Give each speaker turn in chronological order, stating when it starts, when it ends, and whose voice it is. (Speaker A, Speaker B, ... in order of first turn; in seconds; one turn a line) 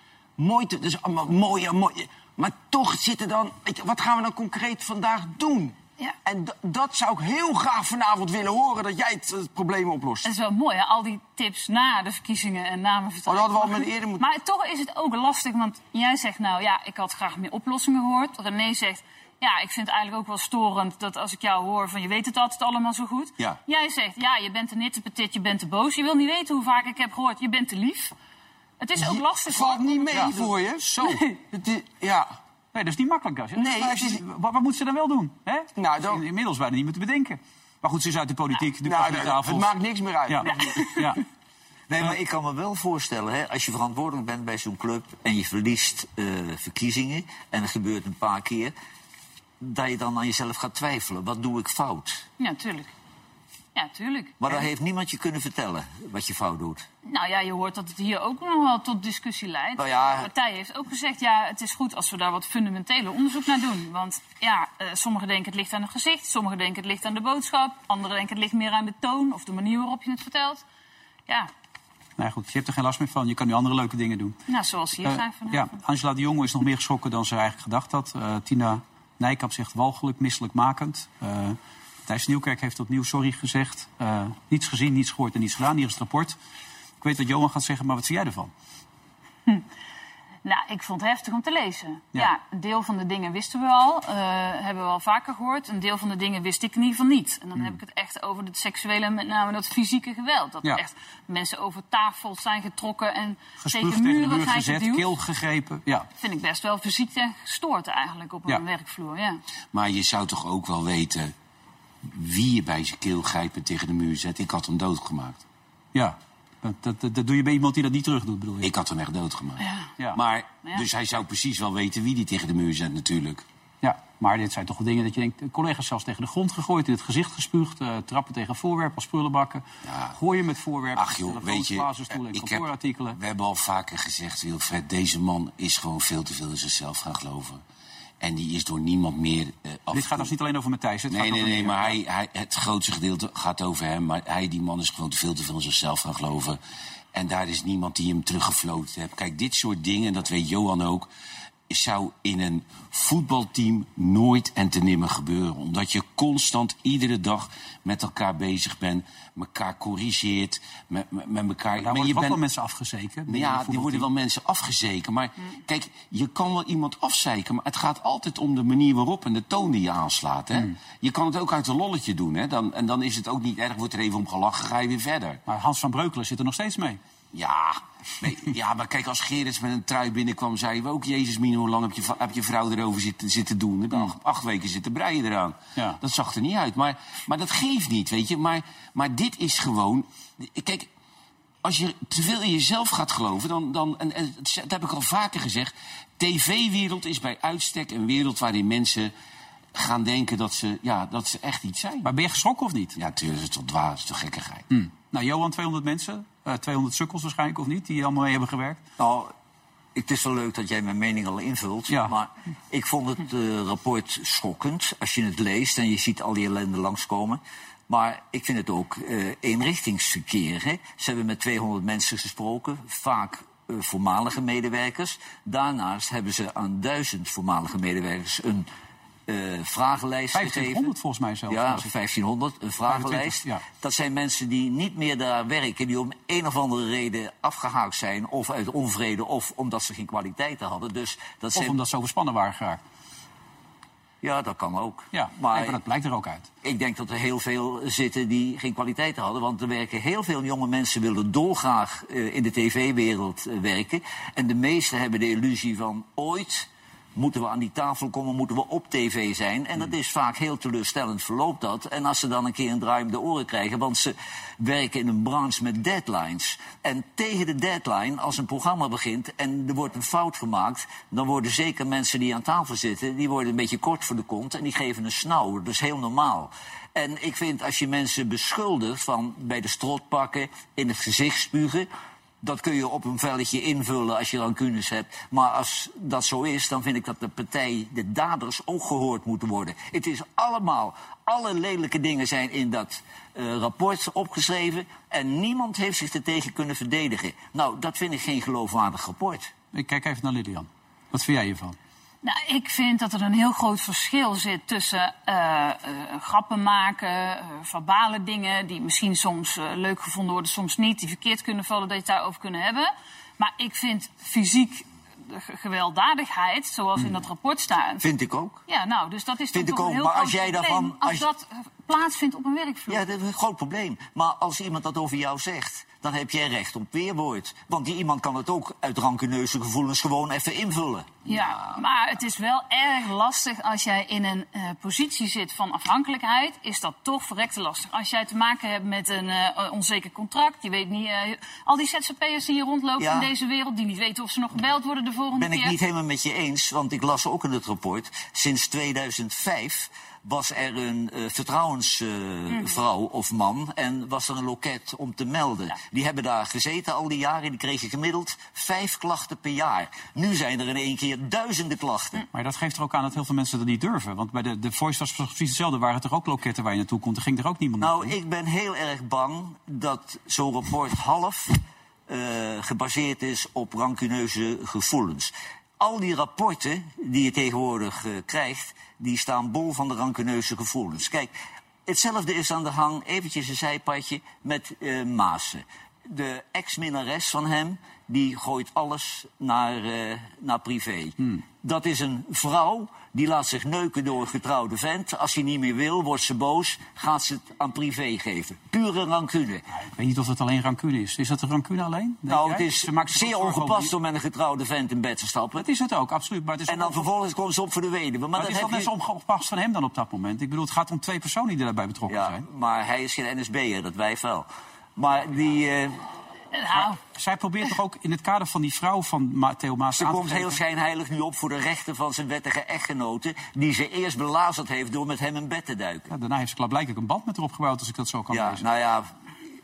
Speaker A: 0.4-10.3
Speaker B: 10.2-28.1
Speaker A: 13.3-14.2
Speaker B: 28.8-31.2
Speaker A: 29.0-32.4
Speaker C: 30.1-30.4
Speaker C: 32.7-39.7
Speaker A: 33.5-34.2
Speaker A: 35.8-36.2
Speaker A: 38.8-41.1
Speaker C: 40.3-41.2
Speaker D: 41.9-48.7
Speaker D: 49.6-52.2
Speaker B: 52.4-52.9
Speaker B: 53.7-54.5
Speaker D: 54.4-56.9
Speaker B: 57.0-70.6
Speaker D: 59.8-60.3
Speaker C: 72.2-74.4
Speaker B: 74.5-75.7
Speaker C: 75.0-86.3
Speaker C: 87.0-88.5
Speaker B: 90.4-105.1
Speaker C: 103.6-106.1
Speaker B: 106.2-109.4
Speaker E: 109.7-111.3
Speaker E: 112.0-115.4
Speaker C: 115.9-118.7
Speaker E: 118.6-123.4
Speaker B: 119.6-119.9
Speaker C: 123.8-133.2
Speaker E: 129.8-130.2
Speaker E: 130.9-137.6
Speaker E: 138.2-140.3
Speaker C: 139.9-142.0
Speaker E: 141.1-146.6
Speaker E: 147.1-151.1
Speaker E: 151.7-162.4
Speaker C: 161.8-164.1
Speaker E: 163.3-175.4
Speaker C: 175.5-177.0
Speaker E: 177.3-190.9
Speaker E: 191.6-199.1
Speaker E: 199.7-202.1
Speaker C: 202.0-202.9
Speaker E: 202.9-204.6
Speaker C: 204.7-208.8
Speaker D: 209.0-209.3
Speaker D: 209.9-228.7
Speaker D: 229.3-230.9
Speaker C: 230.3-231.9
Speaker D: 231.5-241.8
Speaker C: 232.9-233.6
Speaker C: 241.5-242.8
Speaker D: 244.2-245.8
Speaker C: 245.1-246.5
Speaker D: 246.6-281.9
Speaker D: 282.4-299.5
Speaker C: 299.7-301.8
Speaker B: 302.2-318.1
Speaker D: 318.0-318.6
Speaker B: 318.7-323.0
Speaker D: 319.5-321.2
Speaker D: 322.9-331.2
Speaker B: 331.2-345.7
Speaker D: 343.0-343.3
Speaker D: 345.4-362.2
Speaker C: 362.3-368.1
Speaker D: 367.8-381.3
Speaker D: 381.9-399.6
Speaker C: 399.8-403.9
Speaker D: 402.3-405.6
Speaker C: 405.6-407.1
Speaker D: 406.7-408.9
Speaker C: 408.4-412.4
Speaker D: 412.1-416.0
Speaker B: 416.5-417.0
Speaker C: 416.7-420.6
Speaker D: 419.9-426.1
Speaker C: 426.1-428.6
Speaker D: 428.3-429.1